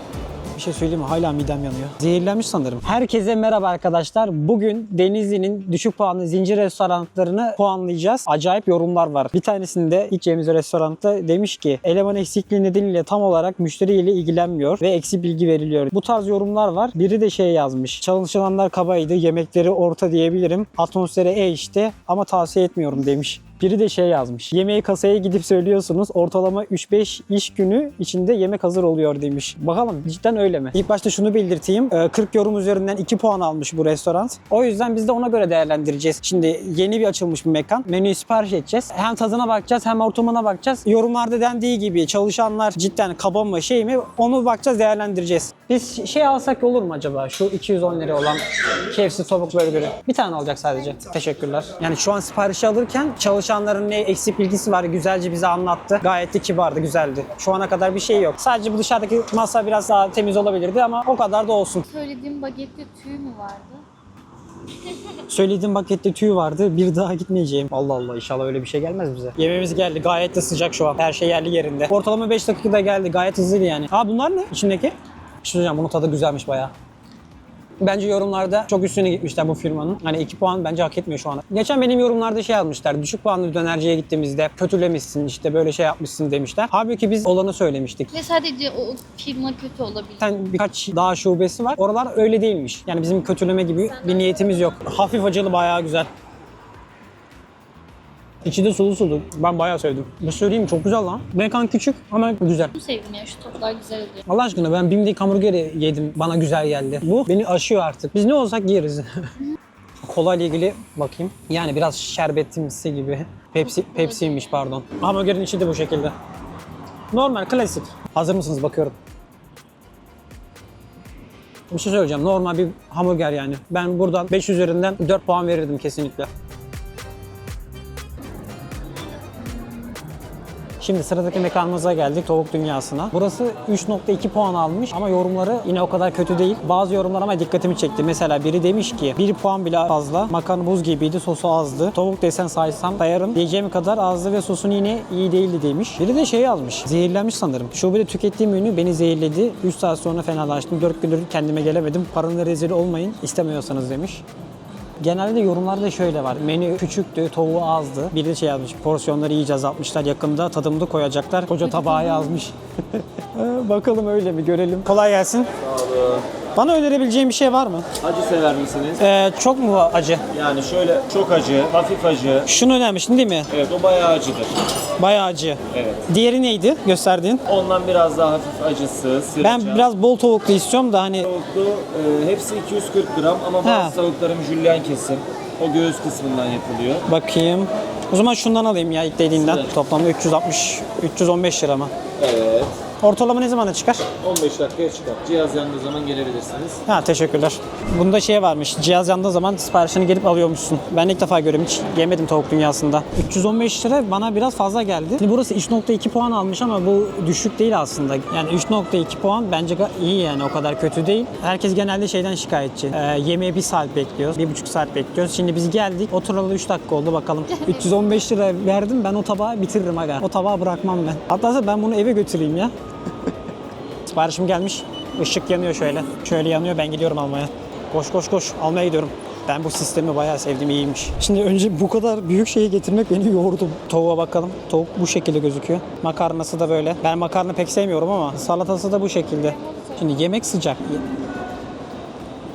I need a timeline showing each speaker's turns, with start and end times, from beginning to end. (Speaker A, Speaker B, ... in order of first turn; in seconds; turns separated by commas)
Speaker A: 0.5-61.9, Speaker B: 61.9-63.8, Speaker A: 65.2-76.7, Speaker A: 77.8-88.1, Speaker B: 88.1-90.2, Speaker A: 90.2-96.1, Speaker A: 98.4-102.8, Speaker B: 102.7-104.2, Speaker A: 104.3-109.3, Speaker A: 110.0-116.1, Speaker B: 113.7-114.6, Speaker A: 117.1-119.0, Speaker A: 121.7-126.3, Speaker A: 130.8-154.2, Speaker A: 155.0-165.5, Speaker C: 165.6-166.2, Speaker A: 166.6-167.9, Speaker C: 168.0-169.0, Speaker A: 169.0-170.3, Speaker C: 170.3-172.5, Speaker A: 172.4-173.5, Speaker C: 173.5-174.6, Speaker A: 175.0-177.4, Speaker C: 175.7-176.1, Speaker C: 177.4-179.8, Speaker A: 179.4-181.3, Speaker C: 181.3-187.0, Speaker A: 183.6-184.0, Speaker A: 187.1-191.9, Speaker C: 192.2-192.7, Speaker A: 193.0-194.0, Speaker C: 194.2-196.8, Speaker A: 196.9-222.7, Speaker A: 224.1-241.1, Speaker B: 239.6-239.9